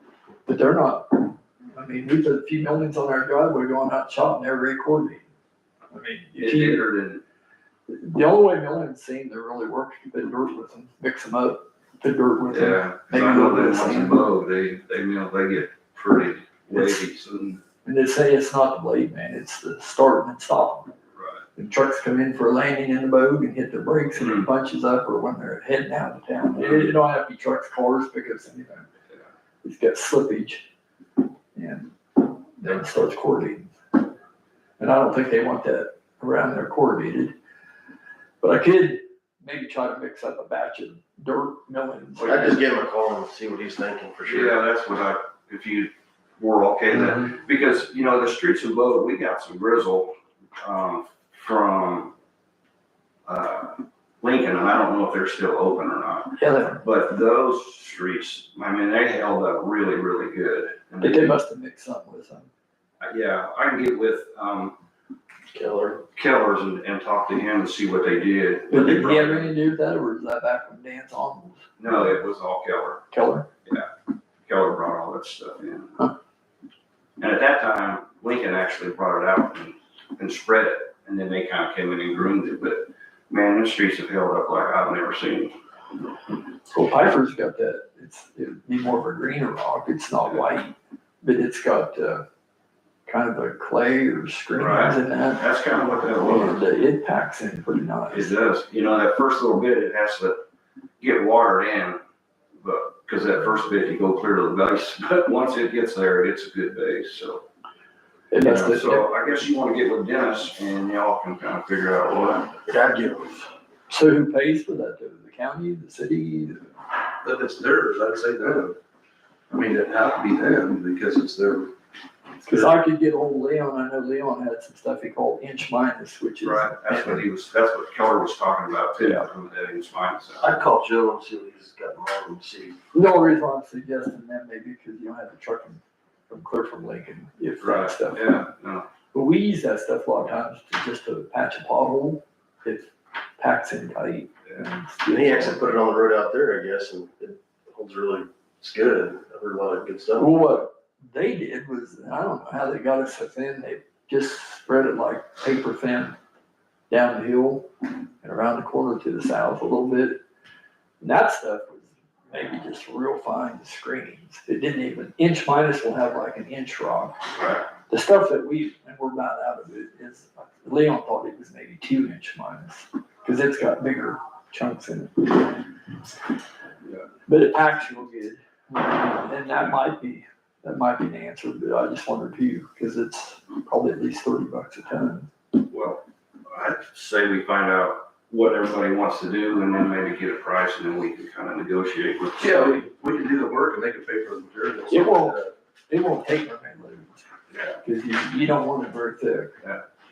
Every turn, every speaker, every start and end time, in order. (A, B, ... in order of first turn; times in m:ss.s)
0:00.4-0:05.2 A
0:05.9-0:06.9 A
0:06.4-0:07.2 B
0:07.9-0:14.3 A
0:12.5-0:17.6 B
0:16.7-0:17.0 A
0:17.8-0:20.9 A
0:21.2-0:21.4 B
0:21.6-0:28.9 A
0:24.2-0:24.4 B
0:26.6-0:26.9 B
0:29.6-0:30.7 A
0:31.5-0:33.7 A
0:34.8-0:37.3 A
0:38.4-0:42.4 A
0:42.2-0:44.6 C
0:44.2-0:52.1 B
0:53.3-1:01.4 B
0:56.4-0:56.8 A
1:01.0-1:02.5 A
1:03.0-1:04.8 B
1:05.5-1:06.0 C
1:06.1-1:09.5 B
1:08.7-1:12.0 A
1:11.8-1:13.0 B
1:13.1-1:13.5 A
1:14.5-1:16.0 B
1:17.2-1:25.6 B
1:26.7-1:32.2 A
1:33.0-1:35.4 A
1:34.5-1:36.6 B
1:36.2-1:38.3 A
1:38.1-1:40.4 B
1:41.0-1:42.0 B
1:42.6-1:47.4 B
1:48.3-1:49.1 A
1:48.4-1:48.7 C
1:48.5-1:52.5 B
1:52.6-1:53.5 C
1:53.9-1:56.7 A
1:57.2-1:58.8 D
1:59.5-2:01.7 D
2:02.4-2:07.2 A
2:06.4-2:10.6 B
2:09.0-2:09.2 A
2:10.4-2:12.8 C
2:12.9-2:18.4 A
2:17.6-2:18.9 B
2:19.1-2:25.7 A
2:25.1-2:30.4 C
2:30.2-2:36.2 A
2:36.9-2:40.2 A
2:41.0-2:47.2 A
2:47.4-2:47.6 B
2:47.9-2:55.6 A
2:57.3-3:05.3 A
3:05.6-3:12.8 B
3:12.4-3:15.5 D
3:14.9-3:17.2 A
3:17.5-3:17.8 B
3:17.8-3:19.5 A